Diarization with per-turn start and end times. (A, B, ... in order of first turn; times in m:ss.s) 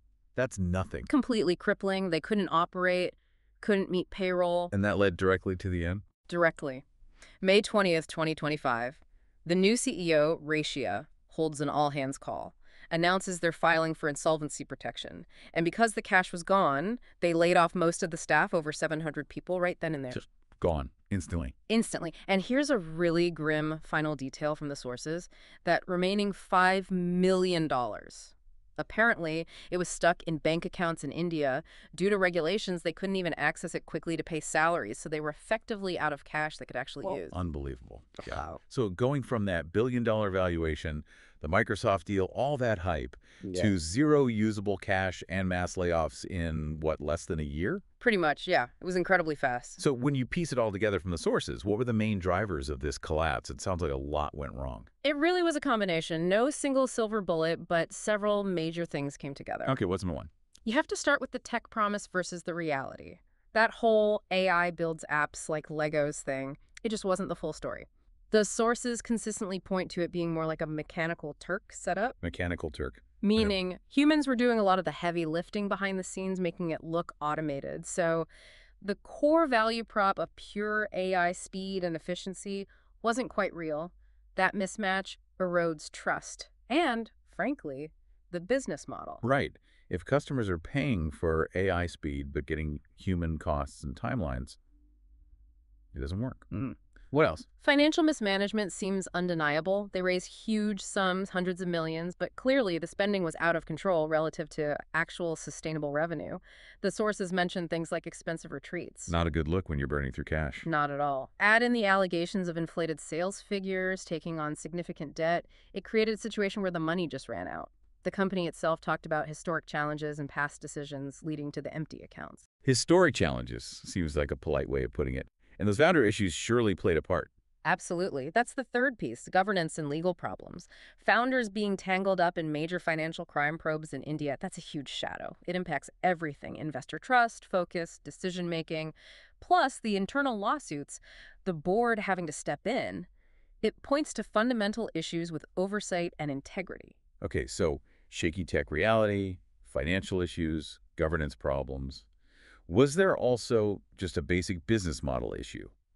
0:00.4-0:01.1 A
0:01.1-0:04.7 B
0:04.7-0:06.0 A
0:06.3-0:06.8 B
0:07.4-0:20.2 B
0:20.1-0:21.5 A
0:21.7-0:37.4 B
0:37.1-0:47.8 A
0:38.3-0:38.6 B
0:48.0-0:49.8 B
0:49.8-0:54.9 A
0:55.0-0:59.8 B
0:59.6-1:00.3 A
1:00.6-1:12.2 B
1:12.2-1:13.5 A
1:13.2-1:18.3 B
1:18.8-1:29.2 B
1:29.2-1:34.6 A
1:35.9-1:37.5 A
1:37.6-1:49.1 B
1:49.1-1:50.7 A
1:50.6-2:02.4 B
2:02.6-2:07.3 A
2:07.6-2:23.1 B
2:23.6-2:27.0 B
2:27.2-2:32.1 A
2:32.7-2:35.7 A